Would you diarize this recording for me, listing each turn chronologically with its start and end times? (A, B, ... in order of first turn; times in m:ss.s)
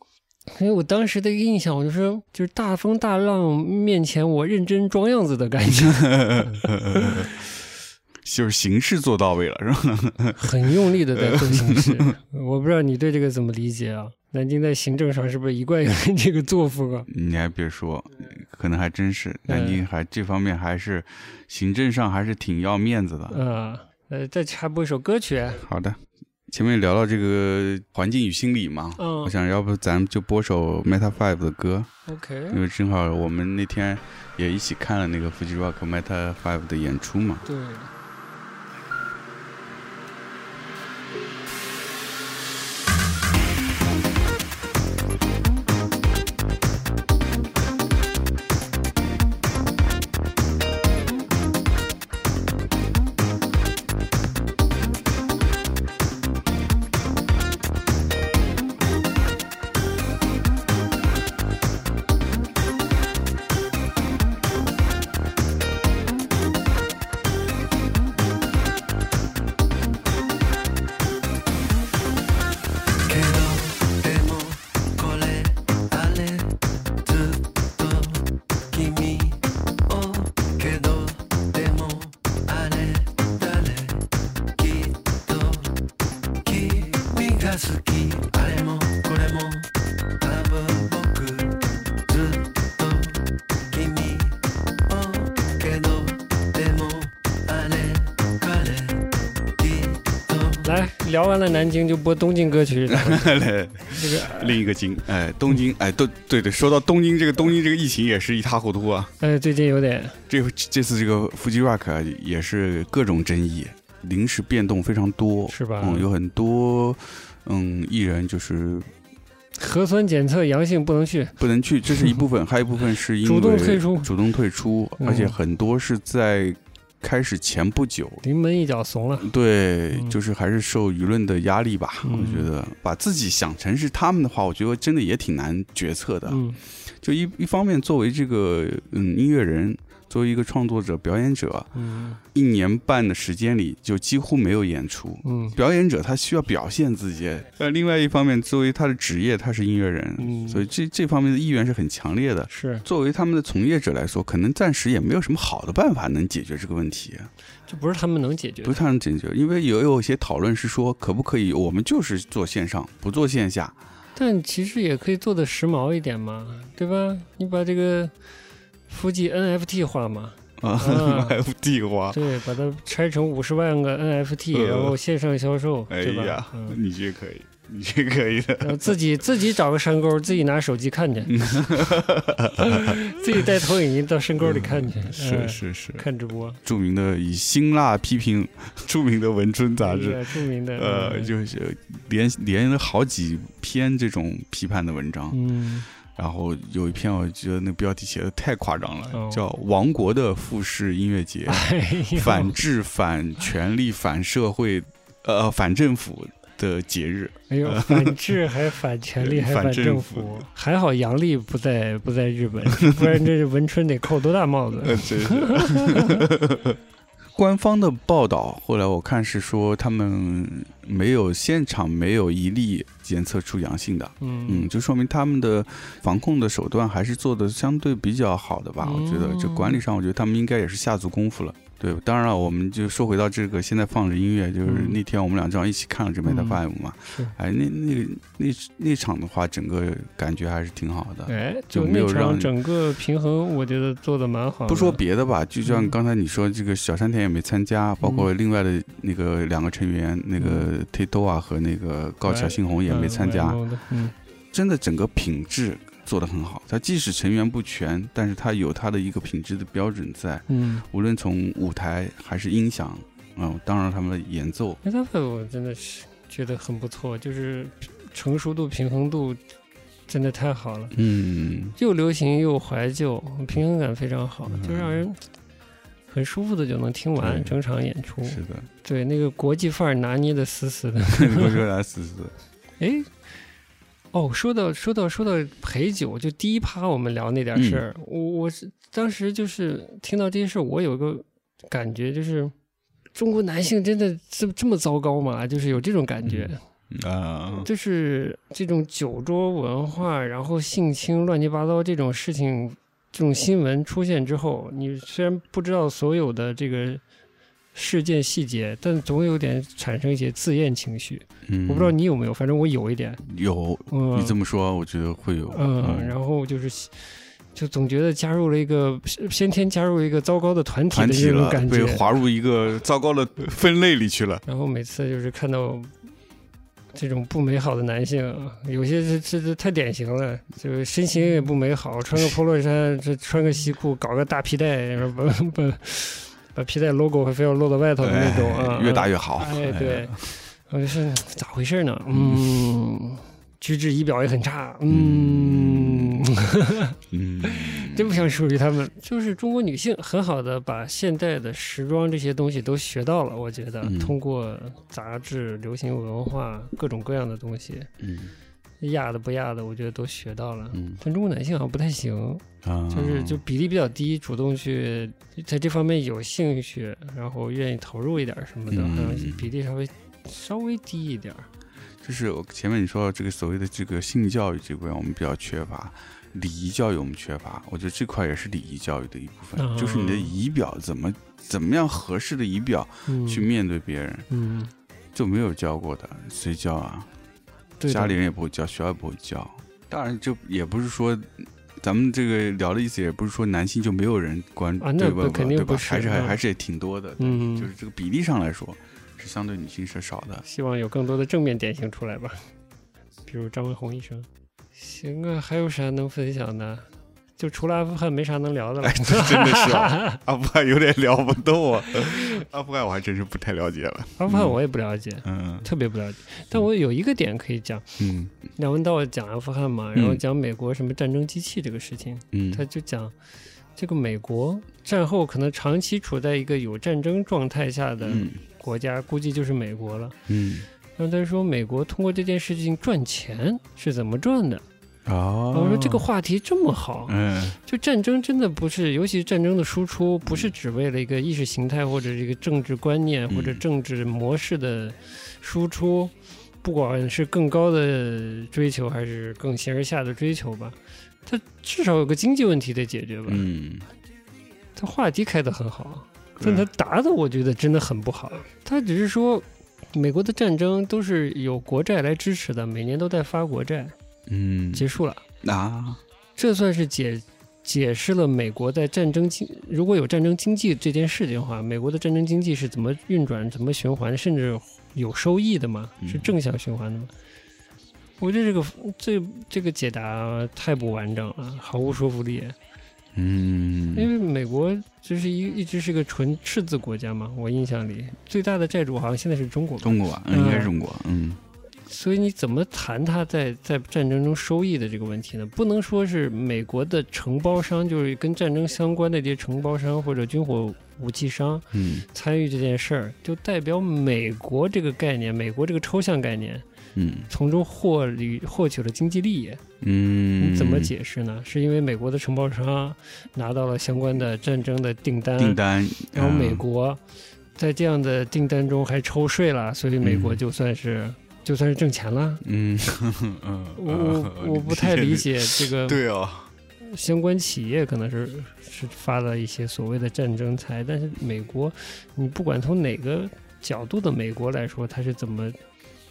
0:00.5-0:07.3 A
0:05.7-0:07.3 B
0:08.2-0:10.5 B
0:10.4-0:17.1 A
0:11.1-0:12.1 B
0:17.1-0:23.4 B
0:19.5-0:19.8 A
0:23.3-0:25.6 A
0:25.6-0:31.9 B
0:29.0-0:29.3 A
0:32.0-0:32.6 A
0:32.5-0:37.4 B
0:37.4-0:37.9 A
1:13.0-1:25.7 C
1:26.4-1:40.7 C
1:40.6-1:44.6 A
1:42.9-1:49.1 B
1:49.2-1:50.2 A
1:50.3-1:58.9 B
1:55.5-1:56.1 A
1:59.6-2:01.4 A
2:01.4-2:08.2 B
2:01.9-2:02.2 A
2:03.2-2:04.1 A
2:05.0-2:05.4 A
2:08.2-2:09.3 A
2:09.2-2:21.7 B
2:12.0-2:12.5 A
2:16.3-2:16.6 A
2:21.7-2:22.2 A
2:22.3-2:37.3 B
2:25.2-2:25.6 A
2:30.2-2:30.7 A
2:32.5-2:32.9 A
2:37.7-2:38.8 A
2:38.6-2:43.8 B
2:44.2-2:48.1 A
2:48.9-2:51.4 A
2:50.6-2:52.2 B
2:52.1-2:56.8 A
2:54.5-2:55.0 B
2:55.9-2:59.0 B
2:58.6-3:01.5 A
3:01.3-3:03.5 B
3:02.6-3:06.6 A
3:04.4-3:06.0 B
3:06.6-3:15.4 B
3:09.8-3:11.3 A
3:15.3-3:15.9 A
3:16.1-3:28.5 B
3:19.1-3:19.4 A
3:21.4-3:22.6 A
3:27.5-3:36.3 A
3:29.2-3:30.5 B
3:32.8-3:33.2 B
3:34.8-3:36.8 B
3:37.4-4:02.5 B
3:44.2-3:44.7 A
3:48.8-3:49.8 A
3:54.6-3:55.0 A
3:56.3-3:56.6 A
4:01.3-4:05.0 A
4:04.7-4:13.6 B
4:05.6-4:06.0 A
4:08.0-4:08.3 A
4:10.4-4:10.7 A
4:12.2-4:14.1 A
4:14.5-4:24.8 B
4:20.5-4:20.8 A
4:24.8-4:29.4 A
4:30.1-4:31.0 A
4:30.9-4:31.8 B
4:31.8-4:35.2 A
4:34.5-4:35.0 B
4:36.1-4:41.6 A
4:37.2-4:37.6 B
4:38.2-4:38.7 B
4:41.1-4:42.3 B
4:42.8-4:43.1 A
4:44.1-4:52.5 A
4:47.6-4:47.8 B
4:53.1-4:56.6 A
4:56.2-4:57.7 B
4:57.6-5:07.0 A
5:07.7-5:13.2 A
5:11.4-5:12.0 B
5:13.2-5:16.2 B
5:13.9-5:14.4 A
5:15.5-5:22.1 A
5:20.9-5:24.4 B
5:24.4-5:25.9 A
5:26.9-5:57.9 A
5:38.0-5:40.4 B
5:42.1-5:42.7 B
5:44.9-5:46.3 B
5:47.1-5:48.3 B
5:53.8-5:54.2 B
5:58.0-5:58.3 B
5:58.8-6:11.5 A
6:00.7-6:01.0 B
6:02.6-6:03.4 B
6:08.7-6:09.5 B
6:12.0-6:24.3 B
6:19.6-6:20.3 A
6:23.0-6:23.5 A
6:24.3-6:24.7 A
6:25.1-6:27.1 B
6:27.8-6:28.2 A
6:27.9-6:40.4 B
6:34.8-6:36.4 A
6:37.2-6:37.7 A
6:40.4-6:42.4 A
6:43.3-6:50.2 A
6:48.8-6:54.6 B
6:52.0-6:52.4 A
6:54.2-6:58.0 A
6:55.2-6:55.7 B
6:58.0-6:58.4 B
6:58.6-7:03.1 A
6:59.9-7:00.2 B
7:02.3-7:02.6 B
7:03.8-7:10.2 A
7:08.0-7:08.4 B
7:10.3-7:10.7 B
7:11.0-7:14.6 A
7:15.0-7:16.0 B
7:15.5-7:33.5 A
7:17.1-7:17.6 B
7:20.2-7:20.5 B
7:23.3-7:23.6 B
7:33.3-7:33.9 B
7:34.8-7:44.0 A
7:36.4-7:36.7 B
7:44.3-7:44.9 B
7:44.7-7:45.2 A
7:45.4-7:46.0 B
7:46.4-7:57.1 A
7:56.0-7:56.3 B
7:58.2-8:02.6 A
8:03.1-8:04.1 B
8:04.0-8:10.7 A
8:09.8-8:11.4 B
8:11.9-8:26.6 A
8:21.7-8:22.0 B
8:27.0-8:27.3 B
8:27.3-8:29.6 A
8:29.8-8:30.9 B
8:30.4-8:35.6 A
8:35.4-8:36.6 B
8:36.1-8:37.0 A
8:37.6-8:42.4 A
8:40.0-8:40.4 B
8:42.4-8:46.5 B
8:43.7-8:46.0 A
8:46.8-8:55.6 A